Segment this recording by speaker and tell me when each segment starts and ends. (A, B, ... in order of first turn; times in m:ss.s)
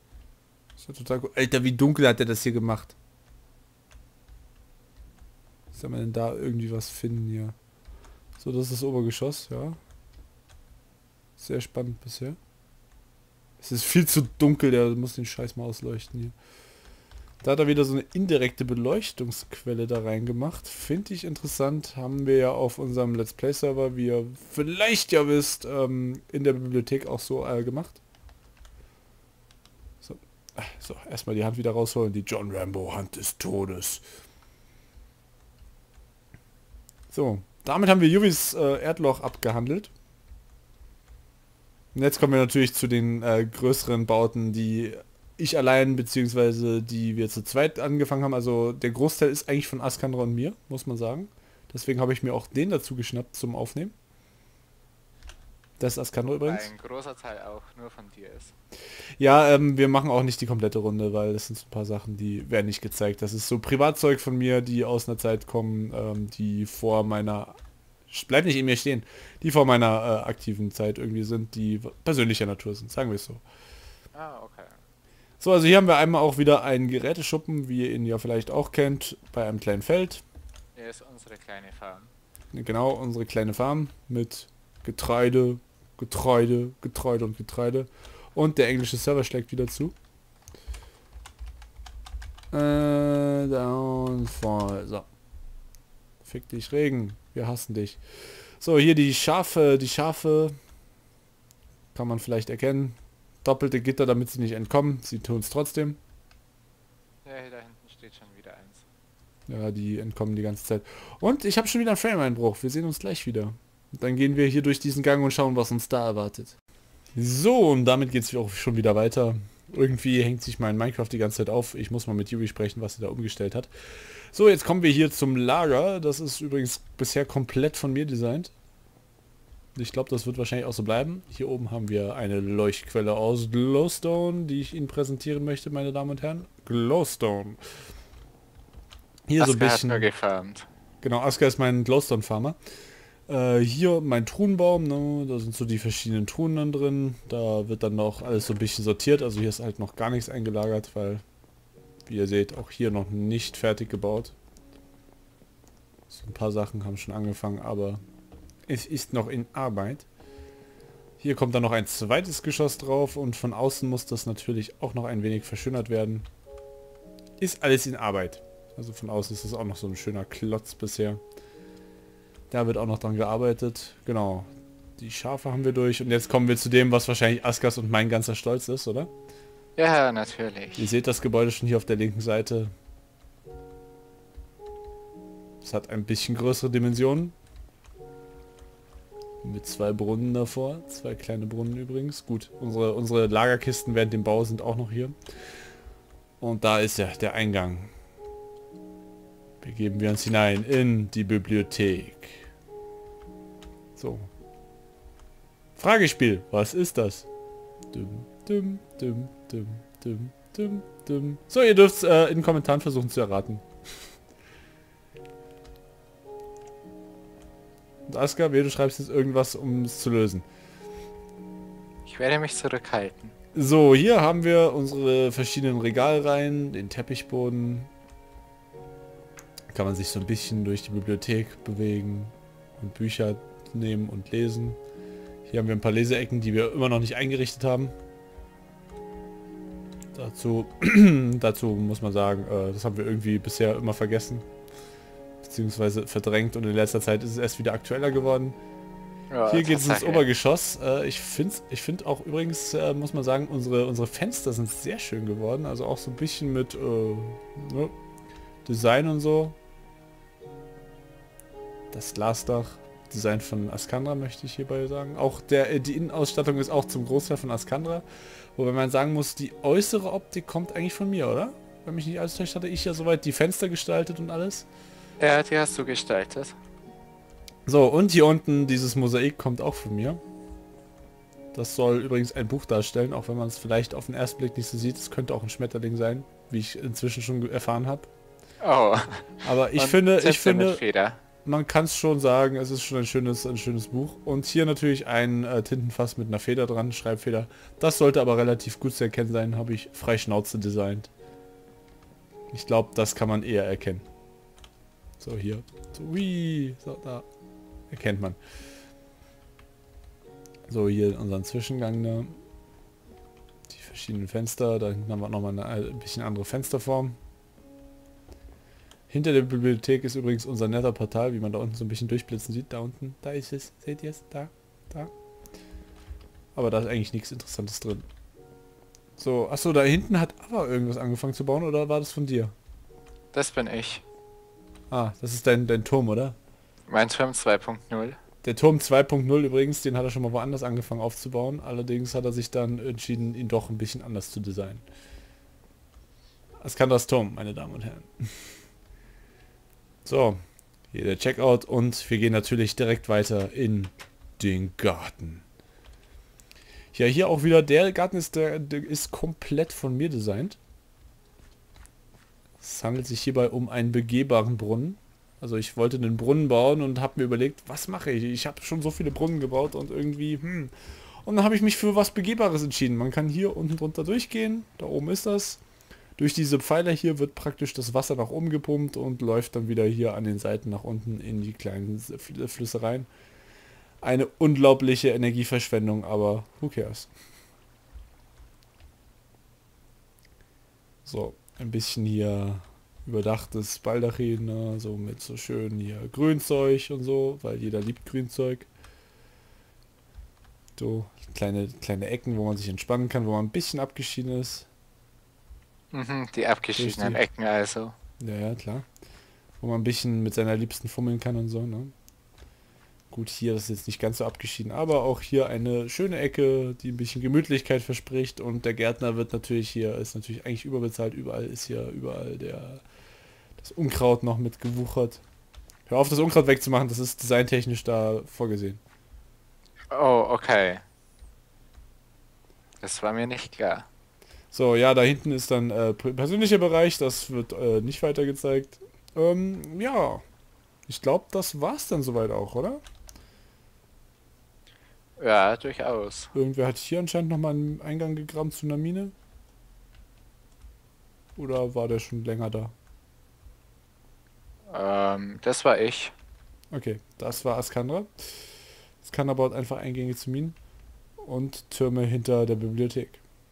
0:00.8-0:03.0 A
0:05.7-0:07.6 A
0:08.4-0:09.8 A
0:11.4-0:12.4 A
0:13.6-0:16.3 A
0:17.4-0:28.0 A
0:30.0-0:34.0 A
0:37.1-0:39.9 A
0:41.9-0:53.9 A
0:55.8-0:56.7 A
0:56.4-0:58.5 B
0:59.2-1:07.6 A
1:08.1-1:13.4 A
1:14.1-1:14.7 B
1:15.4-1:20.2 A
1:20.8-1:22.1 B
1:22.5-1:29.9 A
1:32.5-1:35.1 A
1:36.2-1:38.0 A
1:38.6-1:40.5 A
1:41.9-1:46.0 A
1:47.2-1:48.8 B
1:49.5-1:56.6 A
1:57.2-2:03.7 A
2:04.3-2:08.5 A
2:09.8-2:17.6 A
2:19.3-2:20.1 A
2:19.4-2:20.7 B
2:21.0-2:22.6 A
2:23.3-2:31.2 A
2:32.0-2:34.3 A
2:36.1-2:38.0 A
2:38.7-2:40.1 A
2:41.2-2:46.3 A
2:47.4-2:51.2 A
2:52.5-2:59.1 A
2:59.8-3:00.9 B
3:00.8-3:02.7 A
3:05.6-3:07.3 A
3:09.4-3:15.1 A
3:16.4-3:17.9 A
3:19.6-3:22.5 A
3:24.0-3:24.3 A
3:25.8-3:27.3 A
3:27.9-3:33.6 A
3:38.1-3:40.4 A
3:42.0-3:43.3 B
3:43.5-3:47.9 A
3:49.7-3:54.8 A
3:55.5-3:57.9 A
4:00.1-4:04.4 A
4:05.4-4:08.6 A
4:09.3-4:10.2 B
4:09.5-4:17.9 A
4:18.6-4:19.6 A
4:21.9-4:28.0 A
4:28.6-4:34.7 A
4:35.2-4:36.6 B
4:37.6-4:40.2 A
4:41.5-4:48.1 A
4:48.6-4:51.2 B
4:49.4-4:50.8 A
4:51.4-5:01.1 A
5:02.5-5:04.0 A
5:05.2-5:07.2 A
5:07.9-5:08.4 A
5:10.7-5:12.4 A
5:13.7-5:17.2 A
5:19.1-5:25.1 A
5:26.5-5:28.1 A
5:29.2-5:32.5 A
5:33.3-5:34.0 B
5:34.9-5:36.4 A
5:36.9-5:38.2 B
5:38.4-5:44.8 A
5:46.6-5:48.3 A
5:50.0-5:50.4 A
5:50.9-5:55.4 A
5:56.9-6:00.6 A
6:02.6-6:10.7 A
6:11.2-6:15.6 A
6:16.2-6:23.1 A
6:24.0-6:27.1 A
6:31.0-6:38.7 A
6:40.8-6:44.7 A
6:45.9-6:47.9 B
6:46.8-6:47.2 A
6:48.2-6:48.8 A
6:49.6-6:51.9 A
6:53.1-7:02.8 A
7:03.6-7:05.2 A
7:05.9-7:08.8 A
7:09.9-7:10.8 B
7:12.8-7:13.9 B
7:14.5-7:20.2 A
7:20.9-7:22.8 A
7:25.2-7:26.3 B
7:26.3-7:29.1 A
7:31.4-7:32.7 A
7:34.7-7:36.1 B
7:36.7-7:38.3 A
7:39.0-7:40.6 A
7:41.2-7:43.2 A